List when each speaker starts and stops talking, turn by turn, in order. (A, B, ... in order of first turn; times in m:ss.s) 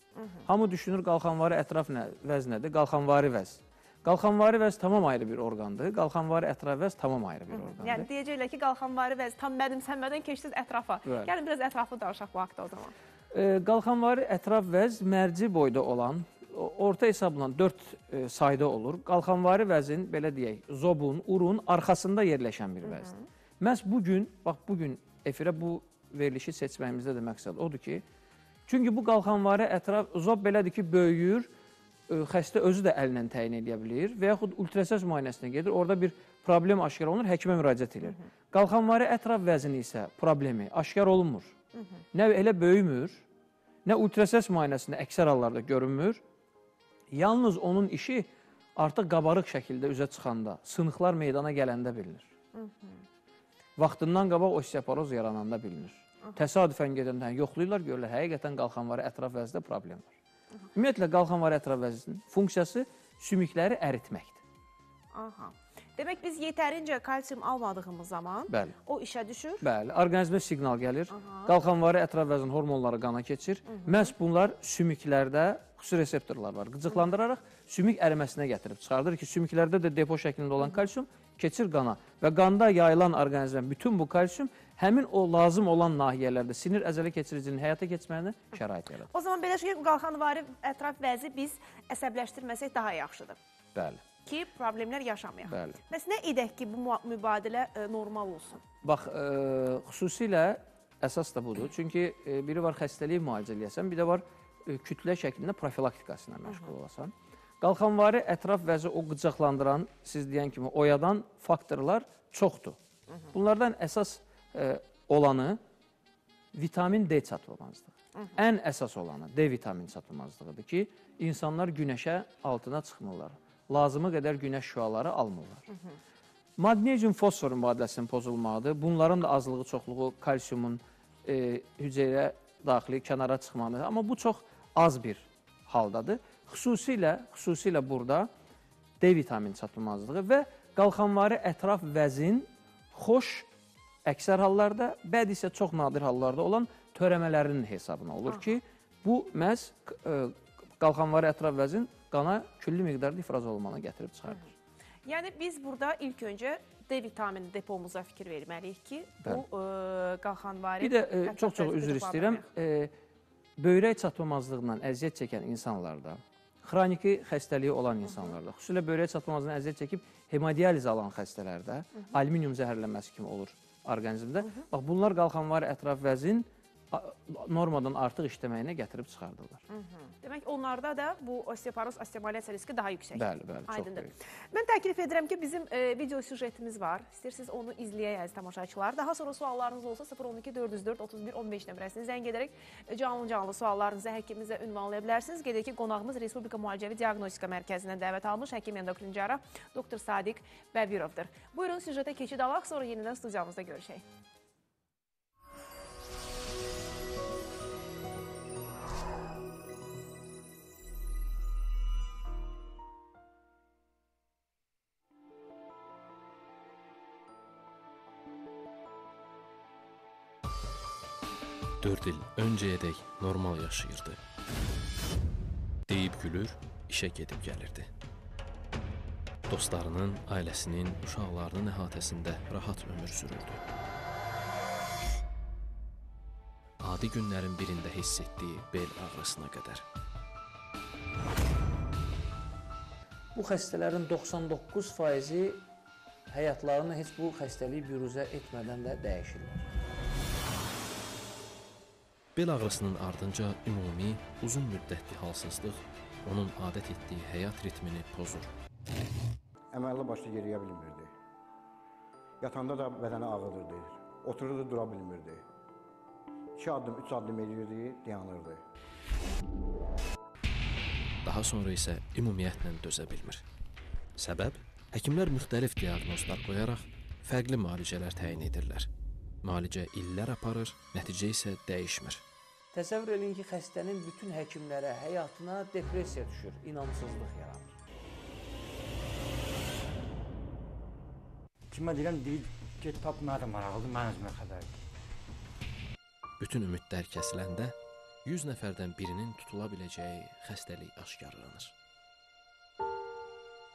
0:00.2-0:00.4 A
0:00.5-0:08.1 B
0:07.5-0:12.9 A
0:11.0-0:11.3 B
0:13.3-0:28.0 B
0:22.9-0:23.2 A
0:28.7-0:31.5 B
0:32.1-0:41.6 B
0:41.8-0:42.0 A
0:42.1-0:43.2 B
0:43.8-0:46.2 B
0:47.1-0:52.3 B
0:52.6-0:53.0 A
0:53.8-1:00.1 B
1:00.7-1:04.4 B
1:05.1-1:09.6 A
1:08.5-1:08.8 B
1:09.6-1:29.1 B
1:11.1-1:11.5 A
1:29.1-1:33.4 A
1:33.8-1:34.0 B
1:34.2-1:38.6 A
1:35.5-1:35.8 B
1:38.8-1:52.8 B
1:53.3-1:55.6 B
1:56.5-2:05.7 B
2:06.6-2:18.3 B
2:19.0-2:23.5 B
2:24.0-2:34.5 B
2:35.1-2:42.5 A
2:40.8-2:42.9 B
2:43.6-2:59.6 B
2:59.7-3:24.0 A
3:03.2-3:04.2 B
3:41.8-3:44.2 C
3:45.9-3:47.9 C
3:49.5-3:53.6 C
3:56.8-3:59.8 C
4:03.4-4:05.6 B
4:06.3-4:09.7 B
4:12.4-4:18.5 C
4:19.7-4:21.1 D
4:22.4-4:25.4 D
4:26.6-4:28.6 D
4:31.2-4:33.4 C
4:34.2-4:38.9 C
4:39.4-4:42.2 C
4:42.7-4:47.7 B
4:51.7-4:54.8 E
4:56.4-5:01.7 C